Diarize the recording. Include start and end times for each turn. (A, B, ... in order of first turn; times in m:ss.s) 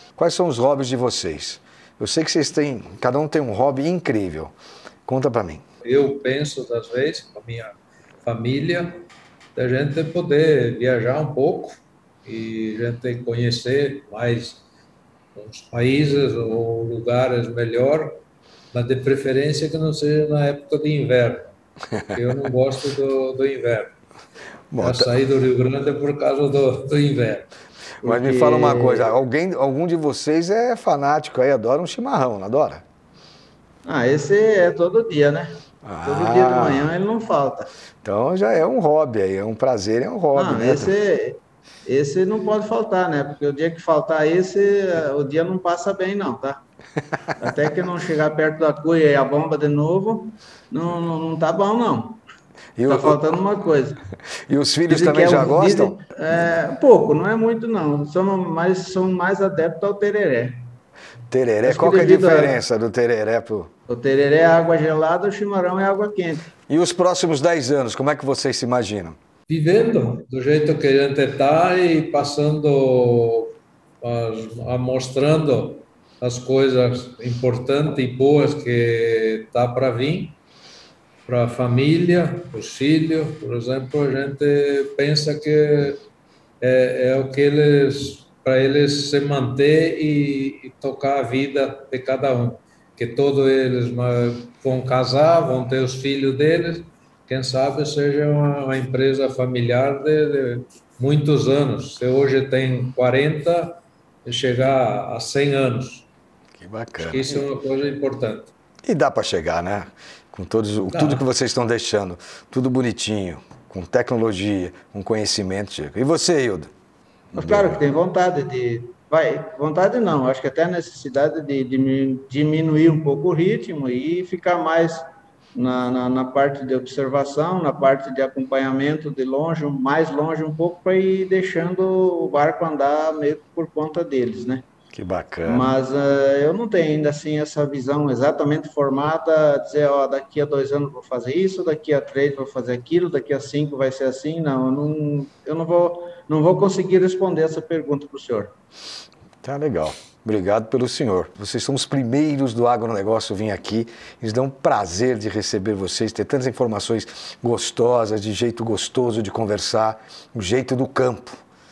0:00.2-0:04.6 A
0:05.1-0:05.6 A
0:05.8-0:14.6 B
0:15.4-0:18.2 B
0:18.7-0:21.5 B
0:22.1-0:23.9 B
0:24.7-0:25.1 A
0:24.8-0:27.5 B
0:28.0-0:32.8 A
0:28.0-0:29.1 C
0:33.8-0:37.7 C
0:35.8-0:36.9 A
0:38.0-0:40.9 A
0:40.4-0:46.6 C
0:47.4-0:52.2 C
0:52.8-0:53.2 A
0:52.9-0:54.0 C
0:54.5-0:56.0 A
0:54.9-1:00.6 C
1:01.3-1:03.7 A
1:01.6-1:02.6 C
1:03.9-1:06.5 C
1:06.7-1:09.2 A
1:09.5-1:20.4 B
1:21.3-1:26.0 B
1:26.6-1:46.1 B
1:46.6-1:47.4 A
1:47.0-1:48.5 B
1:48.8-1:56.7 A
1:50.9-1:51.2 B
1:57.3-1:57.8 A
1:57.3-2:05.0 C
2:05.6-2:14.6 C
2:14.9-2:15.7 A
2:15.4-2:28.5 C
2:29.4-2:41.4 A